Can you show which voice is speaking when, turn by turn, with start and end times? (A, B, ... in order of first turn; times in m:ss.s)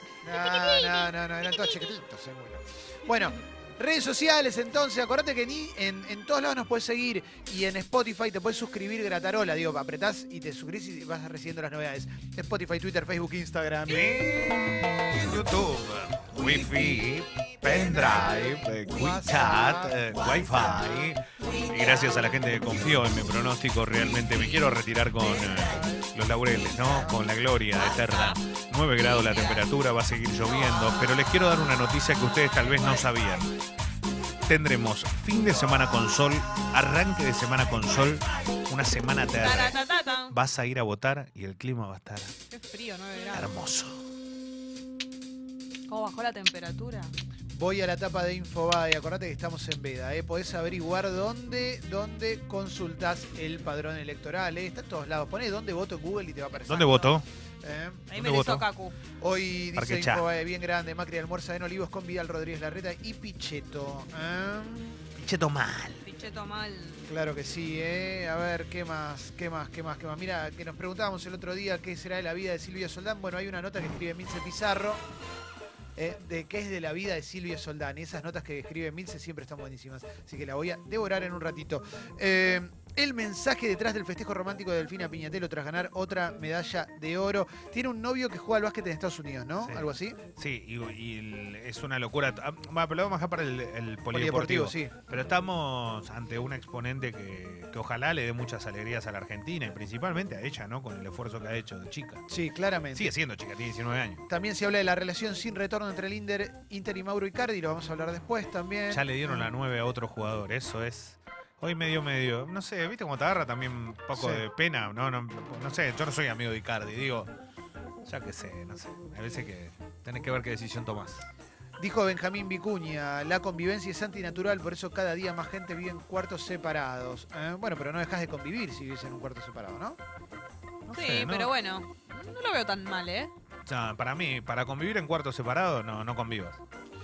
0:00.2-0:14.0 A
0:00.3-0:02.0 B
0:13.9-0:33.5 C
0:18.8-0:20.9 A
0:25.7-0:26.0 A
0:26.8-0:27.1 A
0:29.0-0:29.6 B
0:34.5-0:39.8 C
0:39.3-0:40.4 B
0:40.3-0:42.3 C
0:42.5-0:43.5 B
0:43.3-0:44.1 C
0:45.9-0:47.1 B
0:47.5-0:56.8 A
0:56.5-0:57.1 B
0:56.7-0:57.3 C
0:57.6-0:58.1 A
0:58.1-0:59.0 B
0:58.1-0:58.6 C
0:59.2-1:05.1 A
0:59.7-1:00.3 C
1:05.2-1:06.0 C
1:06.0-1:07.1 B
1:07.1-1:15.0 A
1:16.0-1:30.2 A
1:29.6-1:42.2 C
1:34.1-1:34.9 A
1:42.3-1:43.1 A
1:42.9-1:44.2 C
1:44.3-1:49.5 A
1:48.9-1:57.3 C
1:54.1-1:54.4 A
1:58.0-2:01.3 C
2:01.8-2:10.0 A
2:10.9-2:11.5 C
2:10.9-2:13.3 B
2:13.6-2:16.6 C